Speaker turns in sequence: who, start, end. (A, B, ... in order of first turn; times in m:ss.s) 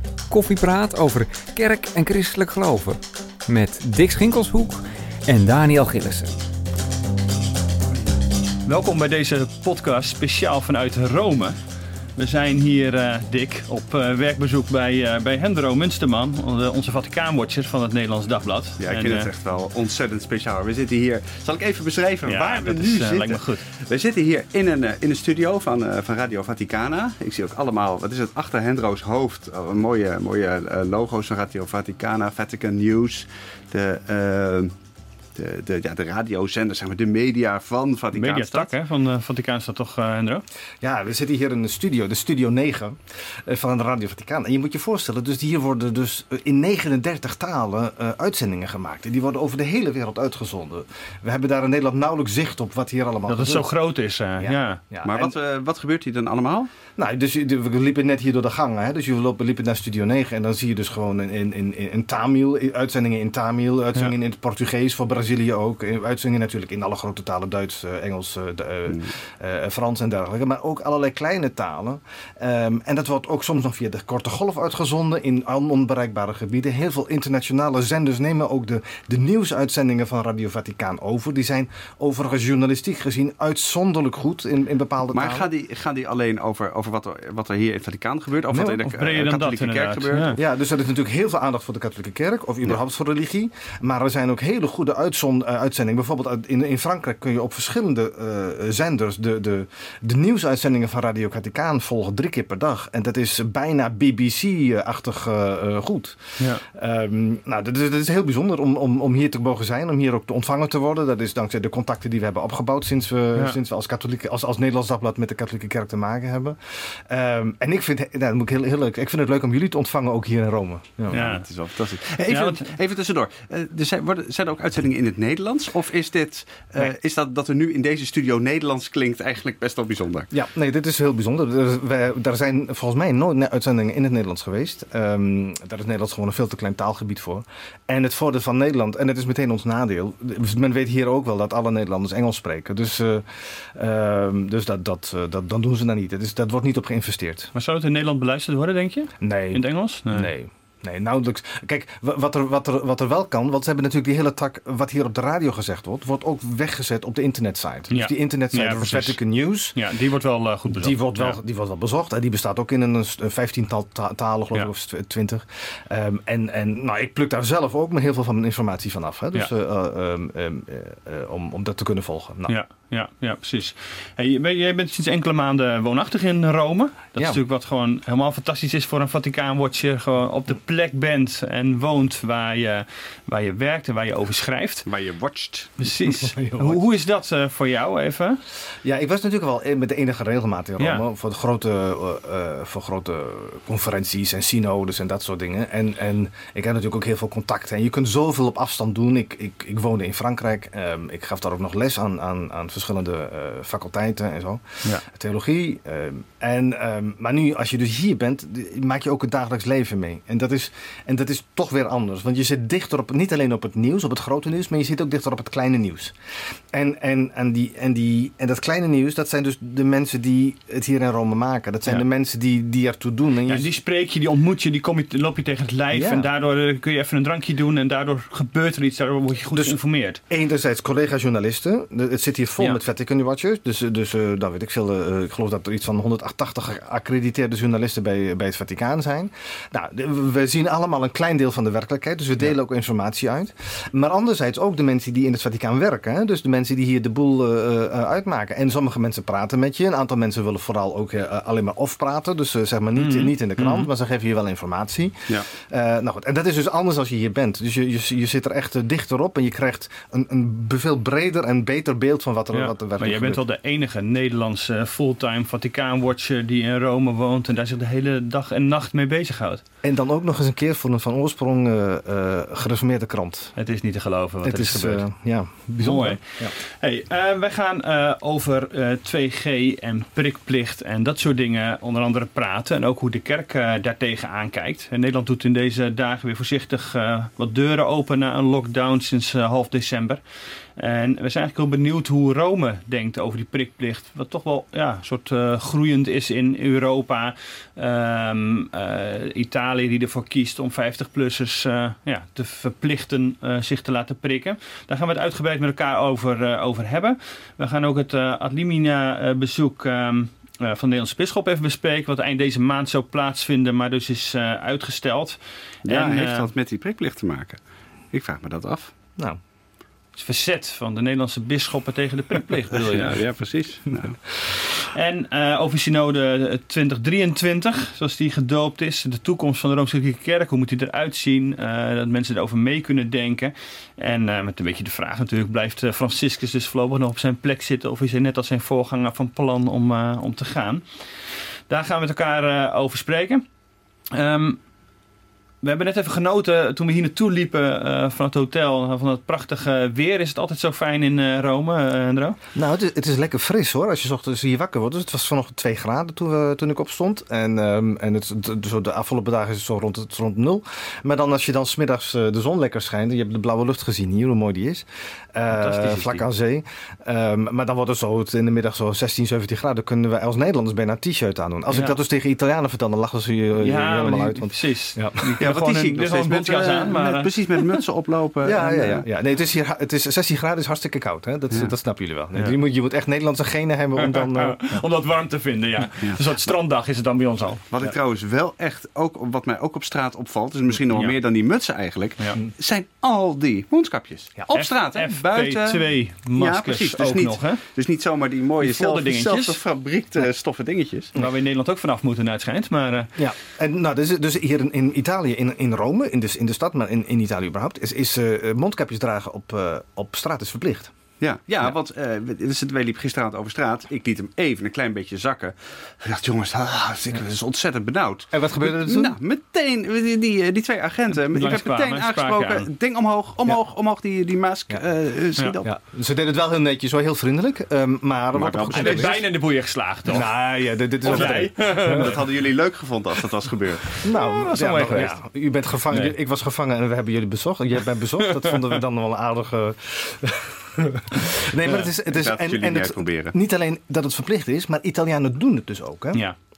0:00.3-0:06.5 A
0:08.6-0:11.6 B
0:12.2-0:19.3 B
0:18.8-0:34.7 C
0:22.2-0:23.6 B
0:35.3-0:38.7 C
0:38.1-0:40.4 B
0:40.8-0:53.7 D
0:53.3-0:54.8 B
0:54.4-0:55.3 D
0:55.0-0:56.7 C
0:57.0-1:25.5 D
1:25.1-1:30.3 C
1:28.5-1:28.8 D
1:28.8-1:30.4 B
1:30.4-2:01.2 D
1:46.4-1:46.6 B
2:01.1-2:10.3 C
2:01.1-2:01.4 B
2:02.2-2:02.7 B
2:10.3-2:27.5 D
2:27.5-2:30.3 B
2:29.2-2:39.8 D
2:37.9-2:39.2 B
2:39.7-2:41.4 B
2:40.7-2:52.5 D
2:52.5-3:04.8 B
3:04.8-3:05.8 C
3:05.8-3:08.4 B
3:06.2-3:06.8 D
3:08.8-3:36.1 D
3:10.8-3:11.0 B
3:36.7-3:43.7 D
3:43.4-3:50.2 B
3:45.9-3:46.3 D
3:49.5-4:23.4 D
4:13.0-4:13.9 B
4:22.5-4:29.6 B
4:29.8-4:33.5 D
4:33.6-4:35.0 B
4:34.4-4:36.5 D
4:35.8-4:50.2 B
4:50.7-5:16.5 B
5:15.8-5:17.6 C
5:18.1-5:18.9 C
5:20.1-5:23.2 B
5:22.7-5:24.2 C
5:24.8-5:43.4 B
5:44.1-5:44.6 B
5:45.6-5:52.4 B
5:52.5-6:15.2 D
6:05.5-6:06.2 B
6:13.6-6:17.7 B
6:15.4-6:19.0 C
6:18.4-6:24.7 D
6:24.0-6:27.6 B
6:27.7-6:35.8 C
6:34.5-6:37.6 B
6:36.4-6:41.1 C
6:38.6-6:39.6 B
6:41.2-6:43.2 B
6:43.2-6:50.9 D
6:51.2-7:05.7 C
6:58.3-6:59.2 D
7:01.1-7:02.7 B
7:05.6-7:09.2 D
7:08.3-7:09.2 C
7:08.7-7:10.3 B
7:10.1-7:12.2 D
7:11.0-7:12.2 B
7:11.1-7:13.9 C
7:13.9-7:15.2 B
7:14.0-7:26.2 D
7:18.3-7:18.8 B
7:21.8-7:23.3 C